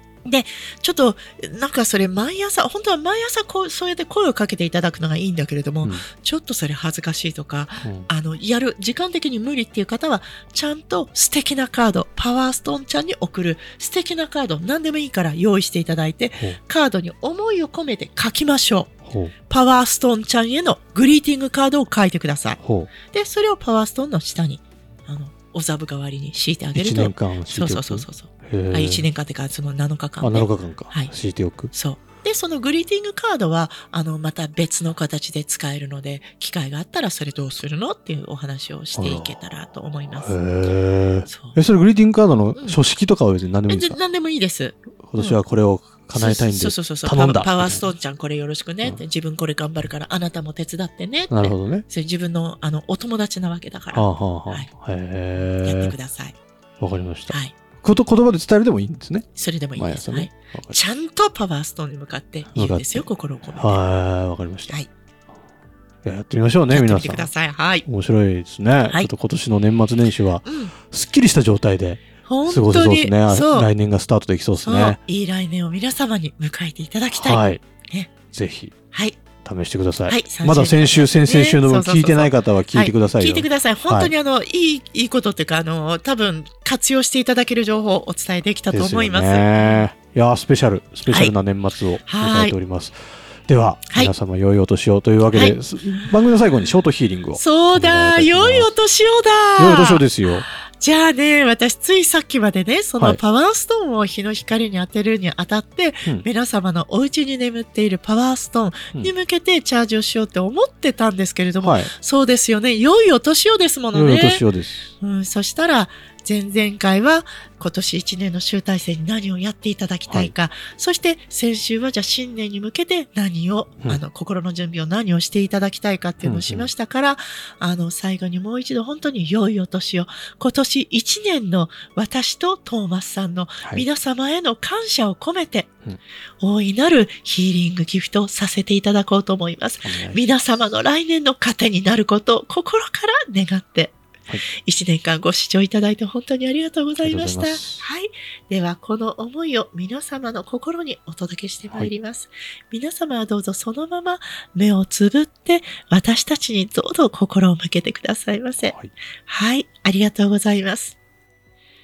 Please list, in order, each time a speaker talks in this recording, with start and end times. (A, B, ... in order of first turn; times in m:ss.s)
0:00.2-0:18.9 A
0:07.8-0:08.1 B
0:19.0-0:19.3 B
0:19.5-0:31.1 A
0:22.6-0:22.9 B
0:26.7-0:29.0 B
0:30.2-0:31.7 B
0:31.7-0:40.4 A
0:38.9-0:39.4 B
0:40.1-0:44.0 B
0:41.3-0:41.6 A
0:43.7-0:45.4 A
0:45.0-0:47.8 B
0:46.1-0:54.7 A
0:51.3-0:51.8 B
0:53.9-0:56.0 B
0:55.6-0:56.4 A
0:56.8-1:00.8 B
0:57.3-0:57.5 A
0:59.4-1:03.8 A
1:02.5-1:04.8 B
1:06.0-1:15.0 B
1:06.7-1:07.8 A
1:10.4-1:10.7 A
1:12.2-1:13.7 A
1:14.6-1:18.1 A
1:17.1-1:17.6 B
1:18.3-1:18.7 B
1:18.9-1:19.2 A
1:19.4-1:24.1 B
1:20.1-1:29.9 A
1:28.7-1:33.0 B
1:31.1-1:31.3 A
1:32.0-1:32.5 A
1:33.5-1:38.7 B
1:35.3-1:36.2 A
1:37.4-1:54.4 A
1:39.6-1:40.4 B
1:51.6-1:51.9 B
1:53.9-1:54.9 B
1:55.0-2:15.7 A
2:06.2-2:06.7 B
2:16.4-2:24.0 A
2:19.8-2:20.2 B
2:24.6-2:41.0 A
2:27.0-2:27.8 B
2:38.6-2:38.9 B